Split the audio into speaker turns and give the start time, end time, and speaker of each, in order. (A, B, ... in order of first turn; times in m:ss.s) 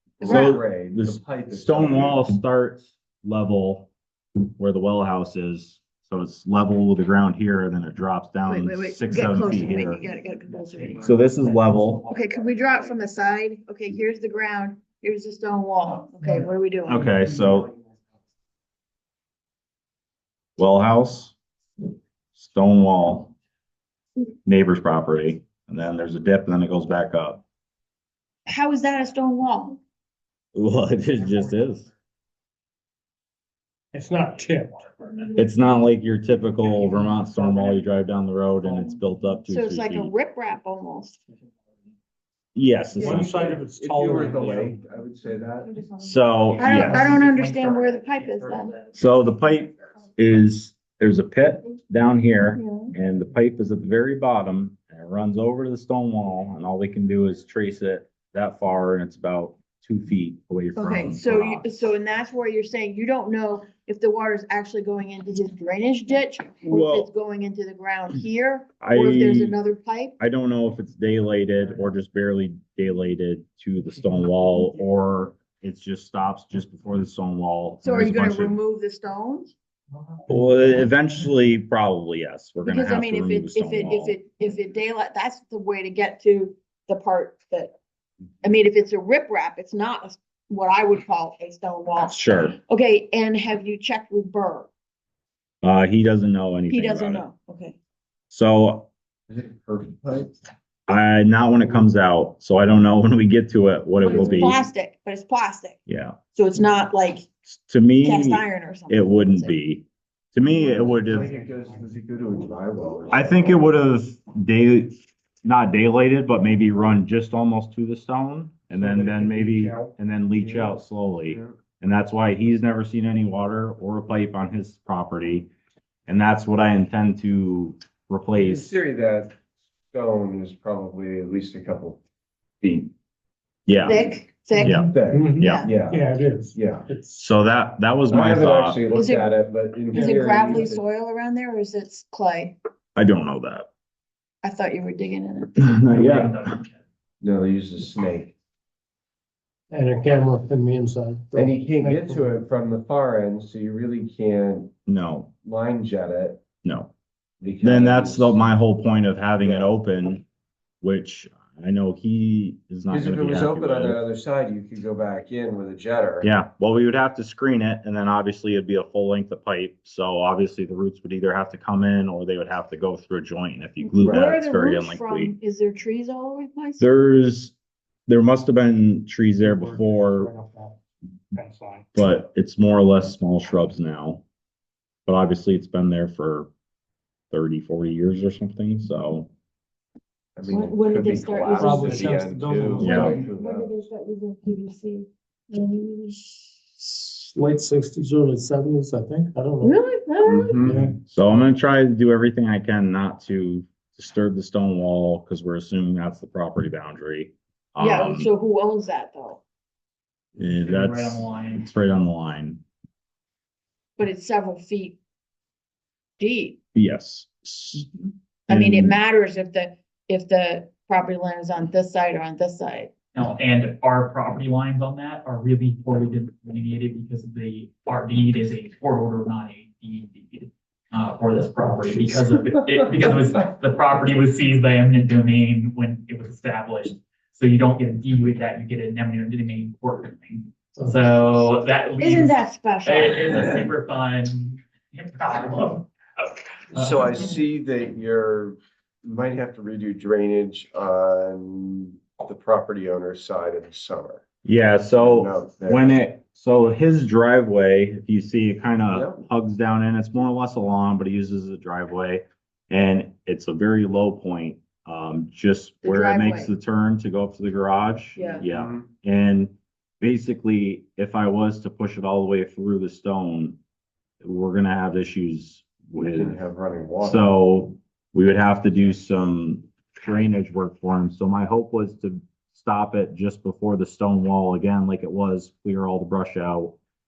0:00.2-0:02.3 A
0:00.2-0:00.6 B
0:00.2-0:03.9 C
0:04.6-0:10.0 C
0:08.5-0:11.1 B
0:11.0-0:12.0 C
0:12.0-0:17.1 B
0:16.9-0:17.7 C
0:20.6-0:21.3 C
0:22.3-0:23.3 C
0:24.4-0:27.4 C
0:28.4-0:29.8 B
0:30.5-0:31.9 C
0:33.9-0:35.0 D
0:35.4-0:40.1 C
0:39.5-0:41.2 B
0:42.6-0:43.6 C
0:43.0-0:44.8 D
0:43.2-0:45.8 A
0:46.0-0:47.2 C
0:46.5-0:48.9 E
0:46.6-0:48.7 B
0:48.9-1:01.7 C
0:52.5-0:52.9 B
1:00.8-1:10.2 B
1:06.7-1:07.1 C
1:08.8-1:09.6 C
1:10.2-1:18.6 C
1:17.8-1:19.6 B
1:20.3-1:24.2 C
1:22.6-1:27.7 B
1:28.4-1:34.7 B
1:32.0-1:32.6 C
1:35.6-1:37.2 C
1:36.7-1:37.8 B
1:38.3-1:38.9 C
1:39.3-1:40.4 A
1:40.9-1:44.6 C
1:44.0-1:45.8 B
1:44.1-1:44.6 A
1:45.9-1:46.2 C
1:46.3-1:47.3 B
1:47.5-1:51.3 C
1:48.0-1:49.6 B
1:50.7-1:53.7 A
1:53.1-2:05.5 C
1:58.9-1:59.9 D
2:00.4-2:00.8 A
2:01.3-2:01.6 A
2:06.1-2:08.7 C
2:08.3-2:09.4 A
2:09.9-2:12.0 A
2:12.6-2:12.9 A
2:13.7-2:15.7 C
2:13.8-2:14.9 B
2:14.6-2:17.2 D
2:14.8-2:16.9 A
2:15.4-2:15.7 B
2:17.2-2:18.8 C
2:18.1-2:20.8 A
2:18.9-2:19.3 B
2:19.9-2:22.6 B
2:23.0-2:23.7 C
2:24.4-2:25.7 B
2:25.6-2:26.5 C
2:25.9-2:26.8 E
2:27.2-2:28.3 A
2:29.7-2:32.3 D
2:31.3-2:34.7 A
2:34.9-2:35.3 C
2:35.4-2:36.4 A
2:36.6-2:36.9 C
2:37.4-2:38.4 A
2:37.6-2:40.2 C
2:39.4-2:39.7 A
2:40.8-2:44.0 C
2:42.9-2:46.3 A
2:46.2-2:55.3 C
2:53.8-2:56.9 B
2:54.0-2:54.3 A
2:56.8-2:57.6 C
2:58.1-3:00.3 C
2:59.4-3:00.8 D
3:01.3-3:01.9 D
3:01.9-3:04.2 C
3:05.1-3:06.5 C
3:07.3-3:09.3 C
3:10.4-3:13.7 A
3:10.5-3:17.2 B
3:11.6-3:13.2 D
3:12.8-3:13.2 C
3:17.2-3:19.8 D
3:19.6-3:20.7 B
3:20.2-3:20.9 A
3:20.7-3:20.9 D
3:20.7-3:28.3 C
3:27.8-3:29.4 B
3:30.4-3:32.6 C
3:30.4-3:31.7 E
3:34.0-3:35.0 B
3:36.2-3:36.6 B
3:36.8-3:37.9 C
3:38.5-3:39.0 C
3:38.5-3:42.9 B
3:43.1-4:07.1 E
4:02.0-4:03.6 B
4:06.7-4:14.2 A
4:14.4-4:33.6 C
4:14.9-4:16.0 A
4:18.9-4:19.2 A
4:25.8-4:26.5 B
4:28.2-4:28.4 B
4:28.2-4:28.9 A
4:34.2-4:36.4 C
4:36.0-4:37.3 A
4:37.0-4:46.8 C